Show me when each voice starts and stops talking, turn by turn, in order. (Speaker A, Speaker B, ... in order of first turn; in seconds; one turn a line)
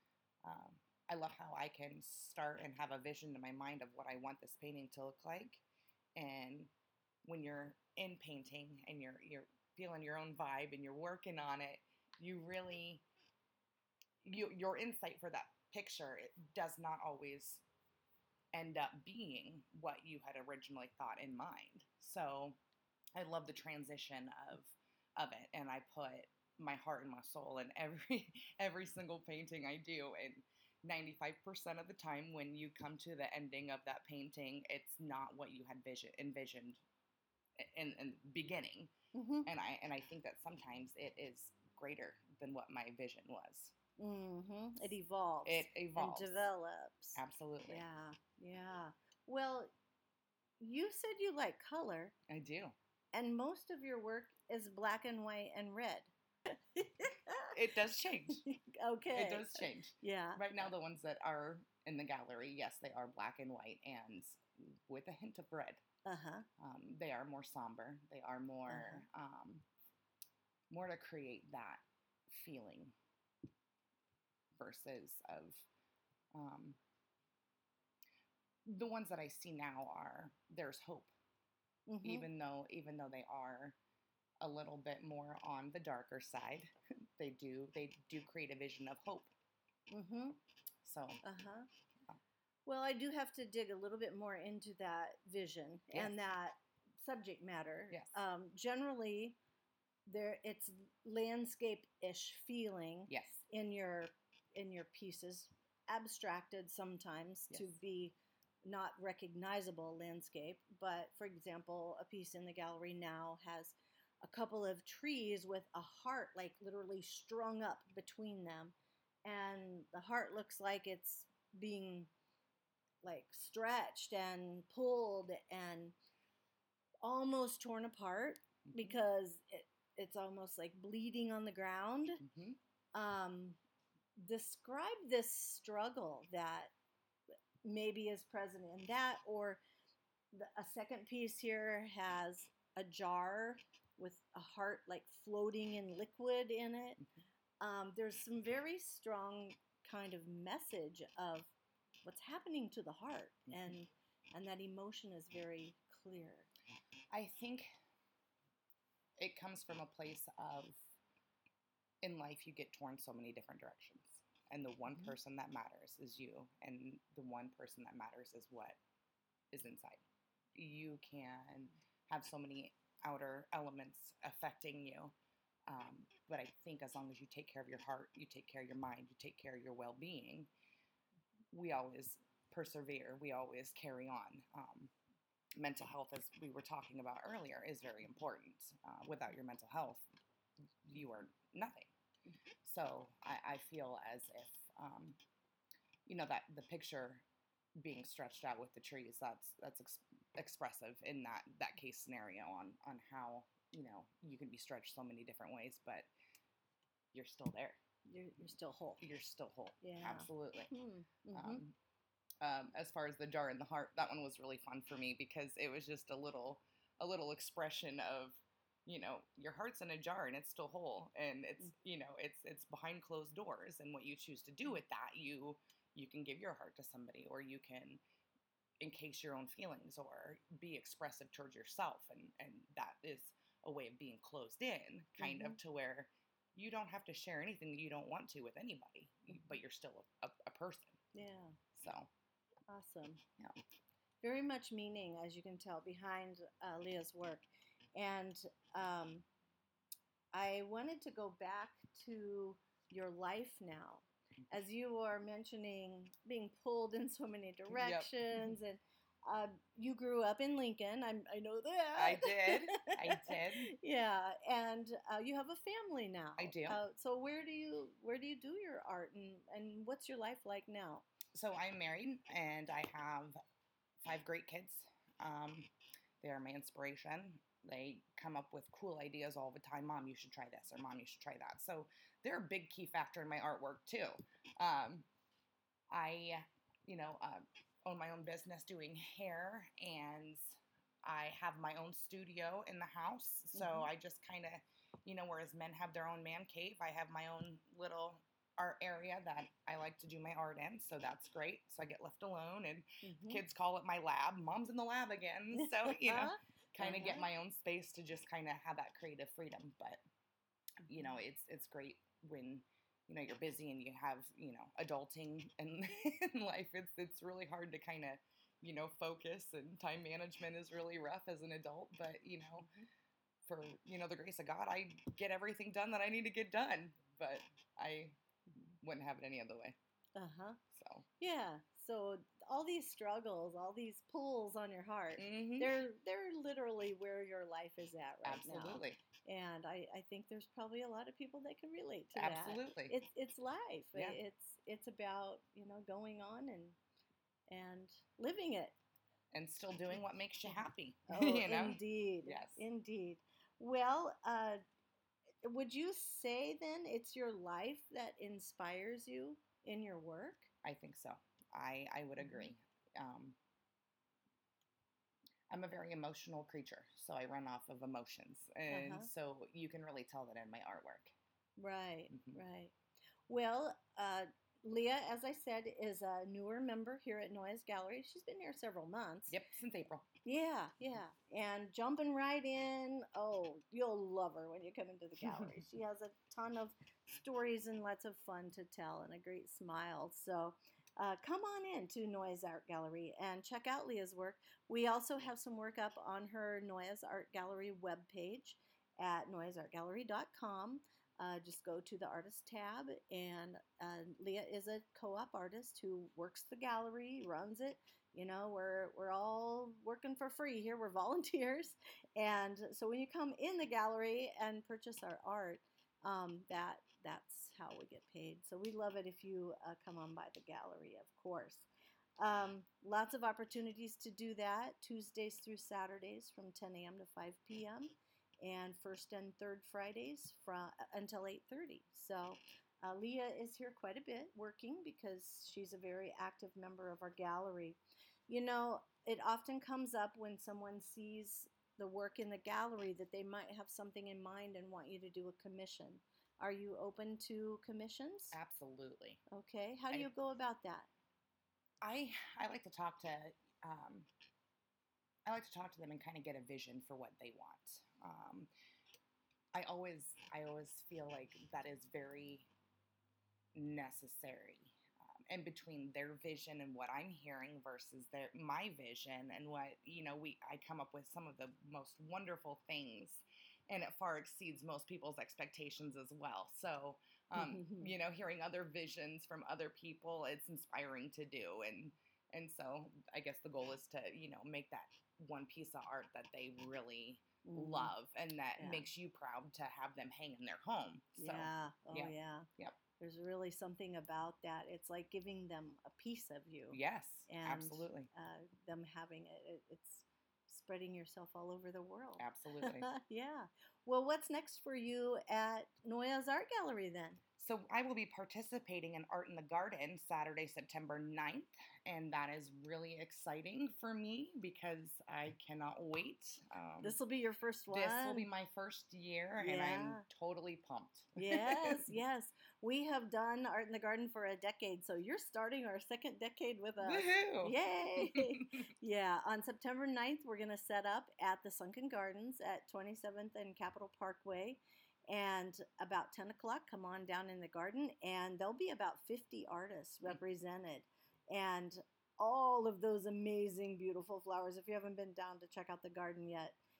Speaker A: 0.4-5.6
Speaker A: 6.2-6.7
Speaker A: 7.2-13.0
Speaker A: 14.2-17.6
Speaker A: 18.5-22.6
Speaker A: 23.2-36.8
Speaker A: 37.6-38.9
Speaker B: 39.1-39.5
Speaker A: 39.5-43.7
Speaker B: 44.0-49.7
Speaker A: 45.5-46.4
Speaker A: 47.1-47.9
Speaker B: 50.6-52.1
Speaker A: 52.3-52.8
Speaker B: 53.1-57.6
Speaker A: 57.5-58.5
Speaker B: 58.3-60.5
Speaker A: 59.1-65.8
Speaker B: 66.0-66.5
Speaker A: 66.6-69.6
Speaker B: 68.7-69.1
Speaker A: 70.7-72.9
Speaker A: 74.6-75.7
Speaker A: 76.3-76.8
Speaker A: 78.7-81.1
Speaker B: 81.9-82.3
Speaker A: 82.0-83.8
Speaker A: 84.4-89.3
Speaker B: 89.9-90.4
Speaker A: 90.8-91.2
Speaker B: 91.2-91.7
Speaker B: 92.7-99.4
Speaker A: 97.9-98.2
Speaker B: 100.1-122.1
Speaker A: 103.1-103.4
Speaker B: 123.0-126.0
Speaker B: 127.0-132.2
Speaker A: 128.7-129.0
Speaker A: 132.2-132.6
Speaker B: 132.9-133.6
Speaker B: 134.2-136.7
Speaker B: 137.6-139.6
Speaker B: 140.3-147.0
Speaker B: 147.6-151.5
Speaker B: 152.0-156.5
Speaker A: 157.1-157.7
Speaker A: 159.2-160.8
Speaker A: 162.0-168.8
Speaker A: 169.5-170.0
Speaker A: 170.6-175.1
Speaker A: 175.7-180.5
Speaker A: 181.5-184.9
Speaker A: 185.6-190.1
Speaker A: 190.8-191.9
Speaker A: 192.6-195.2
Speaker A: 196.1-197.2
Speaker A: 197.8-206.1
Speaker A: 207.1-207.8
Speaker B: 208.1-209.0
Speaker A: 209.0-210.7
Speaker B: 209.8-211.6
Speaker A: 211.3-211.7
Speaker A: 212.4-228.0
Speaker A: 228.8-241.0
Speaker B: 235.2-235.6
Speaker B: 241.1-241.6
Speaker A: 241.8-242.1
Speaker B: 242.7-243.2
Speaker B: 244.2-249.2
Speaker B: 250.3-271.1
Speaker A: 257.7-258.6
Speaker A: 262.0-263.7
Speaker A: 266.4-266.8
Speaker A: 271.3-273.4
Speaker A: 274.0-275.7
Speaker A: 276.2-285.1
Speaker A: 285.9-310.0
Speaker B: 293.6-293.9
Speaker B: 303.0-303.4
Speaker B: 305.5-307.3
Speaker A: 310.9-322.7
Speaker A: 323.5-328.2
Speaker A: 328.8-329.8
Speaker B: 330.2-330.6
Speaker A: 330.7-331.1
Speaker B: 331.2-346.8
Speaker A: 335.2-335.7
Speaker A: 338.2-339.0
Speaker A: 342.1-342.9
Speaker A: 343.9-344.2
Speaker B: 347.5-348.8
Speaker A: 349.3-352.6
Speaker B: 351.1-354.6
Speaker B: 355.4-360.5
Speaker A: 360.6-363.4
Speaker B: 362.2-362.5
Speaker A: 365.5-371.1
Speaker B: 368.7-369.1
Speaker B: 371.6-372.7
Speaker A: 372.1-372.4
Speaker B: 373.3-379.4
Speaker A: 379.3-380.1
Speaker B: 380.2-448.4
Speaker A: 448.3-449.2
Speaker B: 449.3-450.9
Speaker A: 451.8-454.1
Speaker A: 455.3-458.5
Speaker A: 459.5-462.5
Speaker A: 463.6-492.8
Speaker B: 477.4-477.9
Speaker B: 487.4-487.9
Speaker B: 488.6-488.9
Speaker B: 491.2-492.5
Speaker B: 493.0-507.2
Speaker A: 496.7-498.1
Speaker A: 502.2-502.9
Speaker A: 507.4-517.0
Speaker B: 516.8-518.3
Speaker A: 517.7-521.9
Speaker B: 519.4-520.0
Speaker B: 521.2-546.6
Speaker A: 526.8-528.5